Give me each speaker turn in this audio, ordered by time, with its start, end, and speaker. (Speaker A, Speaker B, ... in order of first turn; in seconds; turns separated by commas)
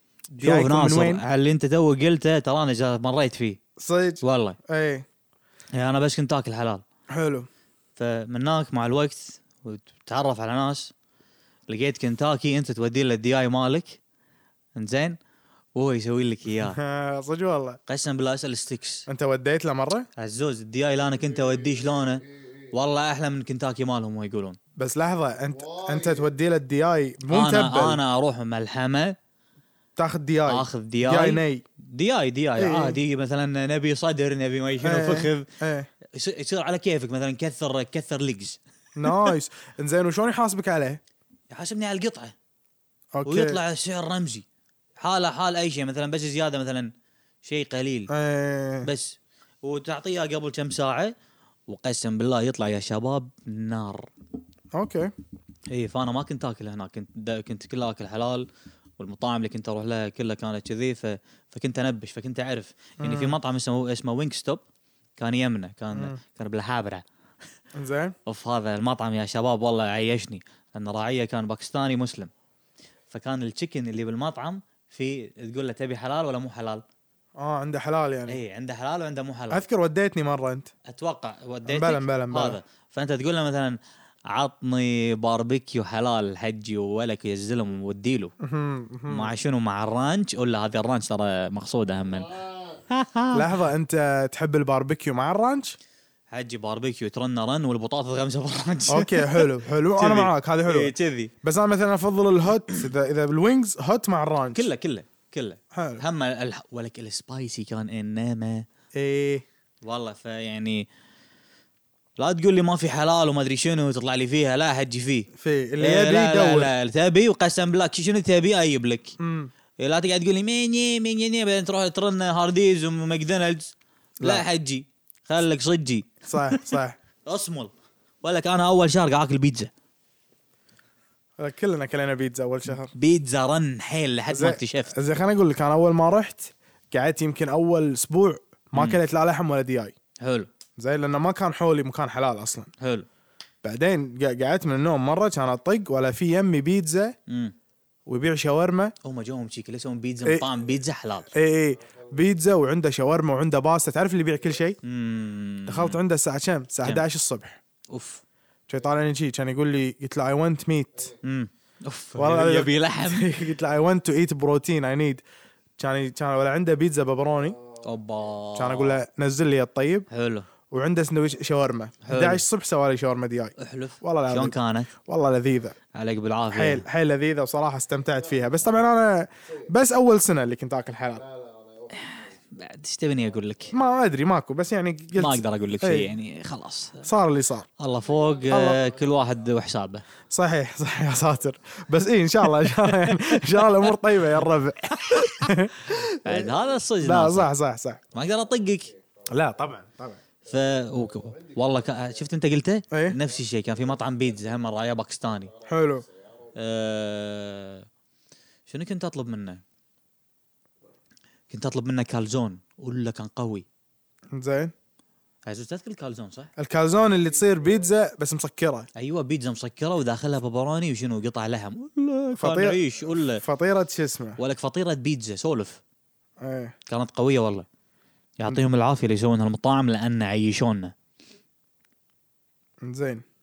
Speaker A: 0.3-3.6, Speaker B: 0.4-1.2, Speaker B: 3.8-5.1, Speaker A: 4.2-4.6, Speaker A: 5.7-6.8, Speaker B: 7.1-7.5, Speaker A: 8.0-10.9, Speaker A: 11.7-14.0, Speaker A: 14.8-15.2, Speaker A: 15.8-16.8, Speaker B: 16.6-17.8, Speaker A: 17.9-19.1, Speaker B: 19.1-20.1, Speaker A: 20.2-24.6, Speaker C: 21.2-22.8, Speaker B: 24.8-28.0, Speaker C: 25.5-26.3, Speaker A: 27.3-29.1, Speaker B: 30.0-31.6, Speaker A: 30.5-35.5, Speaker B: 32.6-33.0, Speaker B: 34.8-35.9, Speaker A: 36.1-38.6, Speaker B: 39.0-41.0, Speaker A: 41.5-42.4, Speaker B: 43.1-43.6, Speaker A: 43.3-44.5, Speaker A: 45.0-46.9, Speaker A: 47.5-48.1, Speaker B: 48.1-48.9, Speaker A: 48.8-51.1, Speaker A: 51.7-54.1, Speaker B: 54.7-55.1, Speaker A: 55.7-58.5, Speaker A: 59.0-64.6, Speaker B: 63.0-63.4, Speaker A: 65.2-67.0, Speaker B: 67.7-68.2, Speaker A: 68.3-72.3, Speaker A: 73.1-76.8, Speaker B: 77.4-78.4, Speaker A: 78.3-79.7, Speaker B: 79.5-80.7, Speaker A: 80.9-83.8, Speaker B: 81.7-82.6, Speaker A: 84.3-88.3, Speaker B: 88.4-89.3, Speaker A: 89.1-92.3, Speaker C: 92.0-92.8, Speaker A: 92.9-93.4, Speaker B: 93.3-95.8, Speaker A: 96.3-101.3, Speaker B: 98.9-104.7, Speaker A: 104.5-108.7, Speaker B: 105.7-106.0, Speaker B: 109.0-109.4, Speaker A: 109.8-110.9, Speaker A: 112.2-115.3, Speaker B: 115.3-116.7, Speaker A: 115.8-119.2, Speaker B: 119.2-119.5, Speaker A: 119.8-126.6, Speaker B: 124.2-124.5, Speaker B: 126.3-127.0, Speaker A: 127.3-129.7, Speaker B: 131.4-132.9, Speaker A: 132.9-134.9, Speaker B: 134.3-139.9, Speaker A: 140.2-140.5, Speaker B: 140.8-142.7, Speaker A: 142.8-143.1, Speaker B: 143.6-147.2, Speaker A: 147.3-147.6, Speaker B: 148.1-148.9, Speaker A: 149.0-151.3, Speaker B: 151.3-154.8, Speaker C: 151.7-152.3, Speaker A: 154.8-156.0, Speaker B: 155.7-157.6, Speaker A: 157.9-158.2, Speaker B: 158.7-161.1, Speaker C: 160.9-161.2, Speaker A: 161.2-163.4, Speaker B: 162.2-165.2, Speaker B: 165.8-167.6, Speaker C: 167.3-168.4, Speaker A: 167.8-169.0, Speaker B: 168.6-170.1, Speaker A: 170.1-170.5, Speaker B: 170.7-175.8, Speaker A: 172.0-172.4, Speaker A: 173.6-174.9, Speaker A: 175.9-176.9, Speaker B: 176.5-181.2, Speaker C: 178.0-178.7, Speaker C: 179.4-179.7, Speaker C: 181.1-183.8, Speaker A: 181.9-183.8, Speaker B: 183.7-186.1, Speaker A: 185.2-187.1, Speaker B: 187.0-187.7, Speaker A: 187.8-190.1, Speaker C: 187.9-189.5, Speaker B: 188.5-188.8, Speaker B: 190.3-198.0, Speaker C: 191.0-191.4, Speaker A: 192.6-193.9, Speaker A: 194.9-197.5, Speaker A: 198.1-198.9, Speaker C: 198.2-199.8, Speaker B: 199.3-200.2, Speaker C: 200.4-202.4, Speaker A: 200.5-205.5, Speaker B: 202.9-203.2, Speaker C: 203.1-206.8, Speaker B: 205.7-206.0, Speaker A: 206.6-207.9, Speaker A: 208.7-209.6, Speaker A: 211.5-213.7, Speaker B: 214.3-214.7, Speaker A: 215.5-216.5, Speaker B: 216.6-218.9, Speaker C: 217.0-217.9, Speaker A: 219.0-223.4, Speaker B: 222.4-222.8, Speaker B: 223.4-224.4, Speaker A: 224.4-225.8, Speaker B: 226.4-226.8, Speaker A: 226.9-227.7, Speaker A: 228.4-230.9, Speaker B: 232.8-233.2